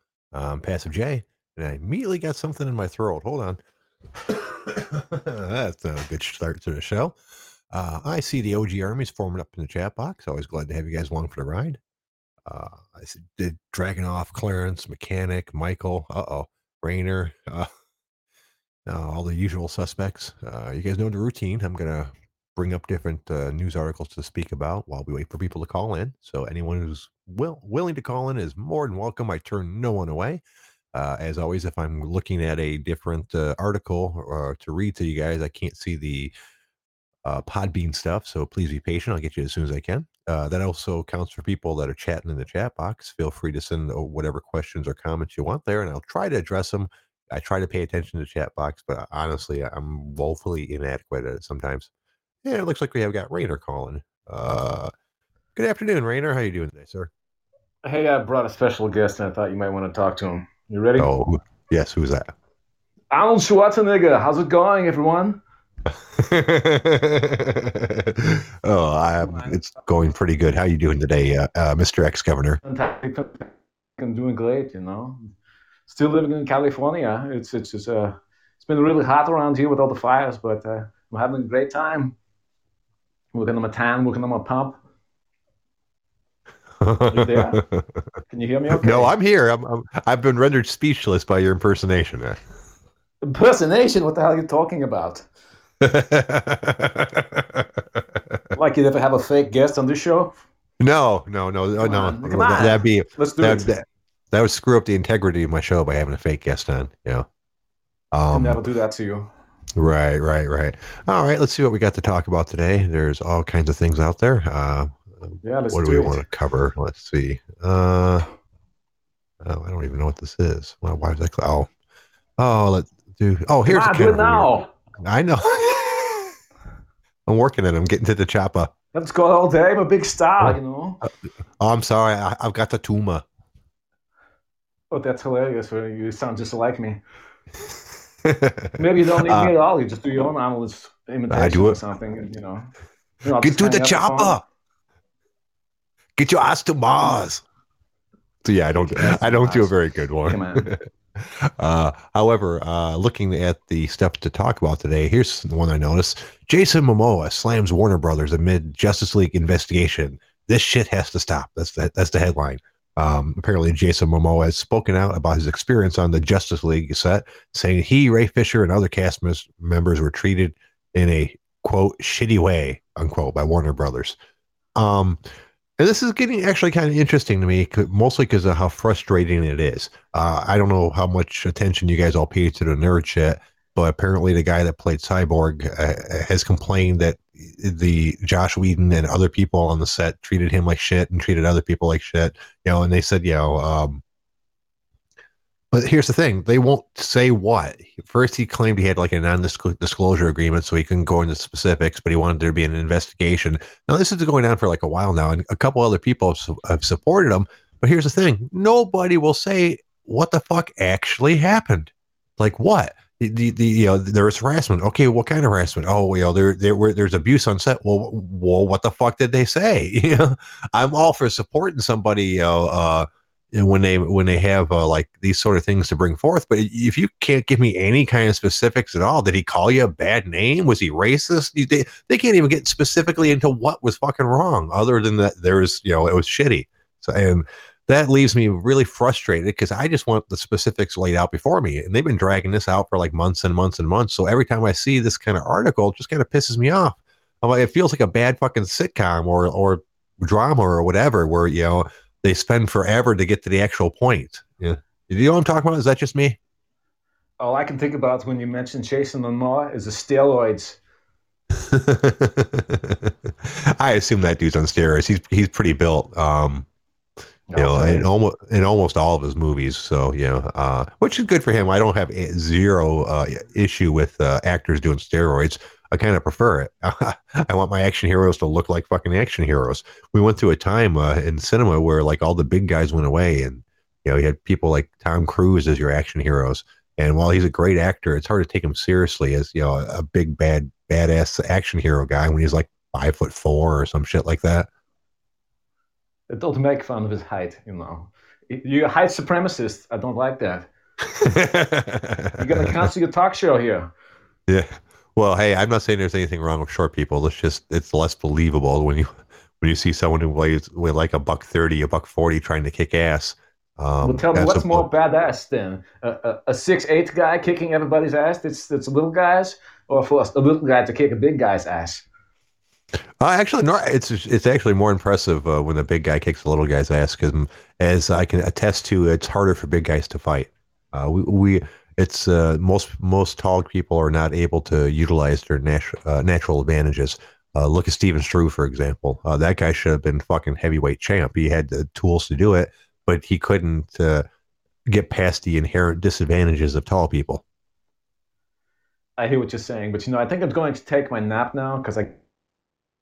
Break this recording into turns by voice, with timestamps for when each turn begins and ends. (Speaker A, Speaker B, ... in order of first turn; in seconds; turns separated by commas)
Speaker A: 0.3-3.6, Speaker A: 4.3-7.2, Speaker A: 7.7-11.8, Speaker A: 12.5-17.7, Speaker A: 18.9-30.4, Speaker A: 30.9-36.3, Speaker A: 37.2-51.9, Speaker A: 52.4-54.9, Speaker A: 55.6-57.1, Speaker B: 57.8-61.1, Speaker A: 61.0-62.3, Speaker B: 63.1-65.4, Speaker A: 66.2-72.6, Speaker B: 69.3-69.6, Speaker B: 72.6-75.3, Speaker B: 75.9-82.2, Speaker B: 83.3-84.8, Speaker A: 86.8-88.0, Speaker B: 87.1-87.6, Speaker B: 88.3-89.1, Speaker A: 88.8-92.4, Speaker B: 93.2-95.3, Speaker A: 95.8-98.4, Speaker B: 98.5-100.4, Speaker A: 100.8-107.3, Speaker B: 101.8-103.7, Speaker A: 108.1-108.7, Speaker B: 108.3-109.3, Speaker A: 109.8-118.2, Speaker B: 115.4-116.2, Speaker A: 119.4-121.7, Speaker A: 122.4-124.5, Speaker B: 123.7-124.7, Speaker A: 125.0-126.3, Speaker A: 127.3-128.7, Speaker B: 128.9-131.0, Speaker A: 131.6-133.2, Speaker B: 134.9-137.0, Speaker A: 138.2-139.5, Speaker B: 138.8-142.7, Speaker A: 141.3-141.8, Speaker B: 143.2-144.4, Speaker A: 143.4-144.4, Speaker A: 146.2-147.4, Speaker A: 148.4-174.2, Speaker B: 148.8-149.7, Speaker B: 150.2-150.7, Speaker A: 174.8-175.2, Speaker A: 175.8-194.0, Speaker A: 195.7-256.4, Speaker B: 257.4-260.8, Speaker A: 261.7-266.7, Speaker B: 267.5-268.1, Speaker A: 267.6-294.7, Speaker B: 296.3-300.7, Speaker A: 301.2-302.9, Speaker B: 302.4-303.9, Speaker A: 304.5-314.9, Speaker B: 314.0-322.0, Speaker A: 323.2-344.2, Speaker A: 344.9-347.4, Speaker B: 349.2-352.2